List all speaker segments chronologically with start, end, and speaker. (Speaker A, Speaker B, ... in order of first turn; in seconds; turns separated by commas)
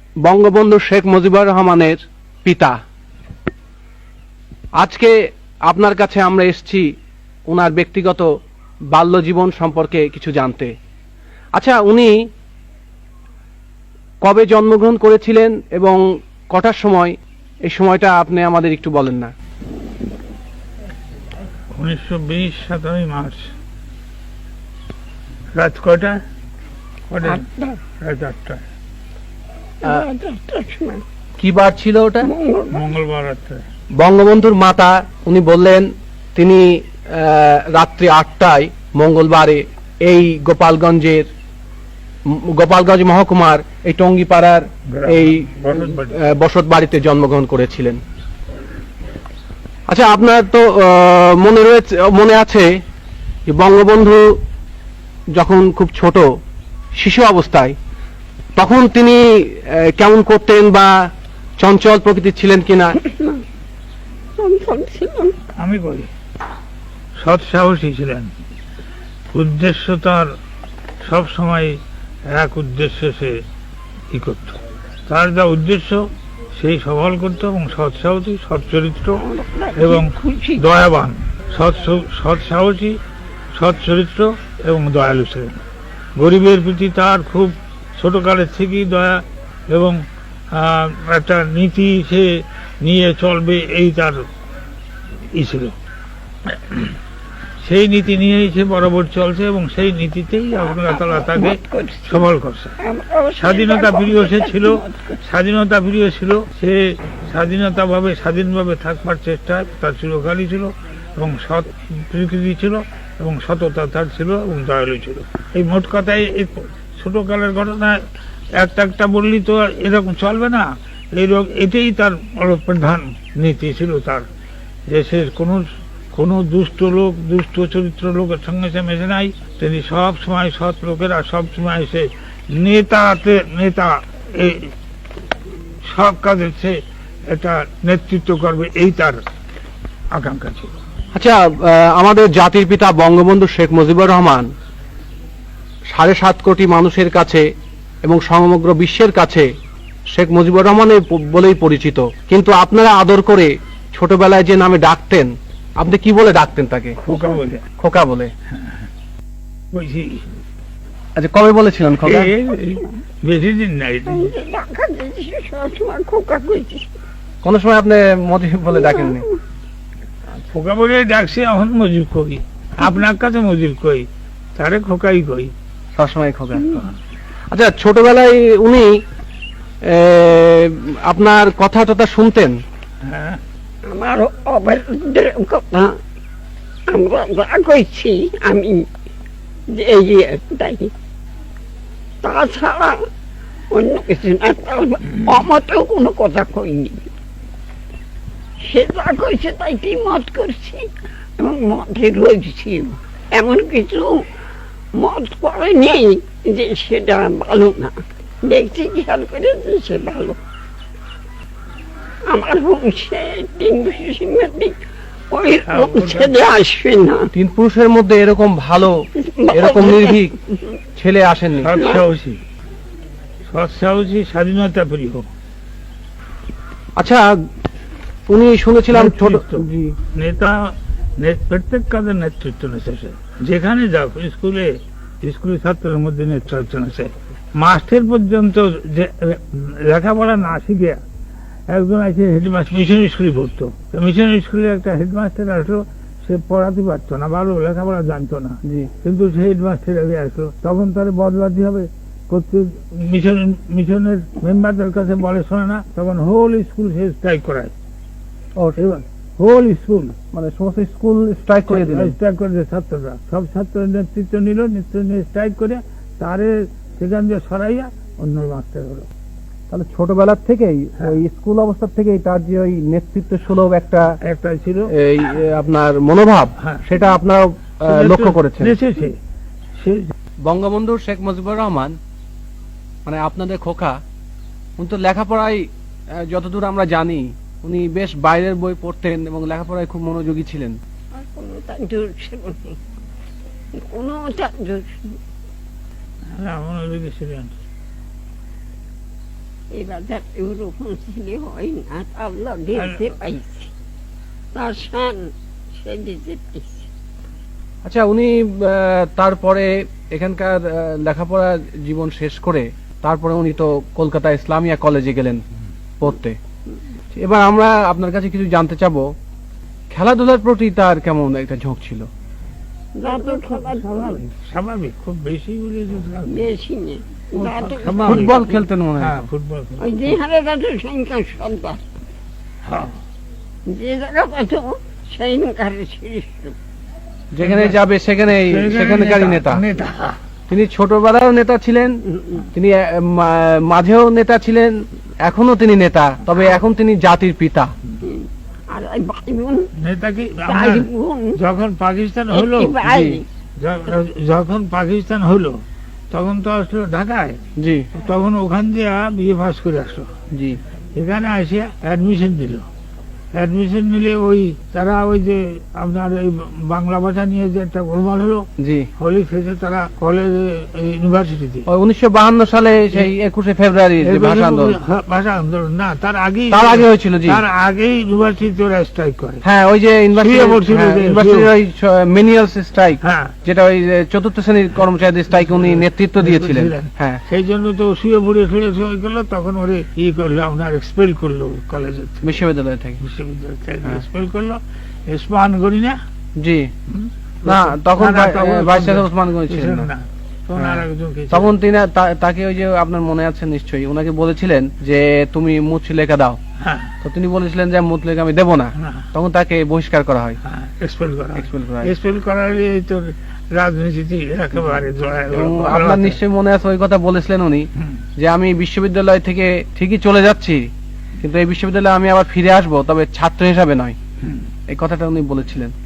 Speaker A: 0.2-2.8, Speaker A: 4.8-5.1, Speaker A: 5.7-6.9, Speaker A: 7.5-8.3, Speaker A: 8.9-10.7, Speaker A: 11.6-12.2, Speaker A: 14.2-19.3, Speaker B: 21.7-23.4, Speaker B: 25.6-26.2, Speaker B: 27.1-27.4, Speaker C: 27.2-27.8, Speaker B: 28.0-28.6, Speaker C: 29.8-31.0, Speaker A: 31.4-32.3, Speaker C: 32.2-32.9, Speaker B: 32.7-33.6, Speaker A: 34.0-41.3, Speaker A: 42.3-48.0, Speaker B: 44.9-46.1, Speaker A: 49.9-52.7, Speaker A: 53.5-54.3, Speaker A: 55.3-56.3, Speaker A: 56.9-57.8, Speaker A: 58.6-61.0, Speaker A: 61.6-63.0, Speaker C: 63.0-63.4, Speaker C: 64.4-65.4, Speaker B: 65.6-66.1, Speaker B: 67.2-68.3, Speaker B: 69.3-70.3, Speaker B: 71.0-71.8, Speaker B: 72.3-73.4, Speaker B: 74.1-79.2, Speaker C: 79.2-80.7, Speaker B: 79.8-83.0, Speaker B: 83.5-85.6, Speaker B: 86.2-90.0, Speaker B: 90.5-94.2, Speaker B: 95.3-95.8, Speaker B: 96.5-96.9, Speaker B: 97.6-102.8, Speaker C: 100.7-102.3, Speaker C: 102.8-105.2, Speaker B: 103.4-118.0, Speaker B: 118.6-124.3, Speaker B: 124.9-134.7, Speaker B: 135.8-136.8, Speaker B: 137.3-139.2, Speaker B: 140.1-140.7, Speaker A: 141.1-144.5, Speaker A: 145.9-147.5, Speaker A: 148.0-149.5, Speaker A: 150.1-157.0, Speaker B: 157.0-157.7, Speaker A: 157.8-158.3, Speaker B: 159.7-160.2, Speaker A: 161.2-162.3, Speaker B: 162.0-164.4, Speaker C: 164.1-166.9, Speaker A: 167.4-169.3, Speaker C: 168.7-169.3, Speaker B: 170.5-175.5, Speaker A: 176.0-176.8, Speaker A: 177.5-178.9, Speaker A: 179.8-182.6, Speaker B: 183.1-183.4, Speaker C: 183.9-185.9, Speaker C: 186.9-188.9, Speaker C: 189.7-190.9, Speaker C: 192.2-193.0, Speaker C: 193.7-197.1, Speaker C: 198.6-204.2, Speaker C: 204.9-210.4, Speaker C: 212.3-214.7, Speaker C: 215.3-217.3, Speaker B: 215.7-216.4, Speaker A: 217.3-219.0, Speaker C: 219.2-220.5, Speaker A: 219.5-220.3, Speaker A: 221.0-221.8, Speaker B: 221.6-222.4, Speaker C: 221.8-222.0, Speaker B: 223.5-225.3, Speaker A: 227.0-227.3, Speaker A: 228.3-229.9, Speaker B: 228.9-241.0, Speaker B: 241.7-257.7, Speaker A: 248.7-248.9, Speaker B: 258.8-260.1, Speaker A: 260.3-262.2, Speaker B: 261.7-269.1, Speaker A: 269.7-274.2, Speaker B: 274.2-274.9, Speaker A: 274.9-278.8, Speaker B: 276.6-276.9, Speaker B: 277.9-279.2, Speaker B: 279.8-280.1, Speaker A: 280.4-282.0, Speaker A: 283.1-284.0, Speaker A: 284.8-290.8, Speaker C: 291.1-292.8, Speaker C: 293.8-295.2, Speaker B: 296.3-297.6, Speaker C: 299.7-303.7, Speaker B: 302.8-303.1, Speaker C: 304.6-306.9, Speaker A: 307.9-315.4, Speaker A: 316.0-316.4, Speaker A: 317.1-319.1, Speaker A: 319.9-322.1, Speaker C: 322.9-324.2, Speaker B: 323.0-326.5, Speaker C: 326.3-328.6, Speaker B: 327.4-330.1, Speaker A: 328.1-329.3, Speaker C: 329.8-331.8, Speaker B: 332.6-332.9, Speaker C: 333.7-336.6, Speaker A: 337.3-339.6, Speaker B: 337.4-337.8, Speaker B: 338.3-340.1, Speaker A: 340.5-347.7, Speaker C: 348.0-349.7, Speaker B: 349.8-352.8, Speaker C: 350.5-351.4, Speaker C: 352.3-353.3, Speaker A: 352.8-353.2, Speaker B: 353.6-355.6, Speaker B: 356.1-357.4, Speaker A: 357.6-357.9, Speaker B: 357.9-360.1, Speaker A: 360.3-360.6, Speaker B: 360.9-362.7, Speaker B: 363.3-368.5, Speaker A: 368.6-368.9, Speaker B: 369.0-371.7, Speaker A: 371.7-374.8, Speaker B: 374.0-379.4, Speaker A: 376.5-377.4, Speaker A: 379.4-387.2, Speaker B: 380.1-381.5, Speaker B: 383.0-383.4, Speaker B: 385.3-392.3, Speaker A: 392.2-393.0, Speaker B: 393.0-396.0, Speaker A: 396.4-396.7, Speaker B: 396.9-401.5, Speaker A: 397.4-399.9, Speaker A: 400.6-406.4, Speaker B: 406.6-406.9, Speaker A: 407.0-410.4, Speaker B: 408.8-409.1, Speaker B: 410.4-416.2, Speaker A: 411.4-411.9, Speaker A: 415.3-420.7, Speaker A: 421.2-424.0, Speaker A: 424.7-425.7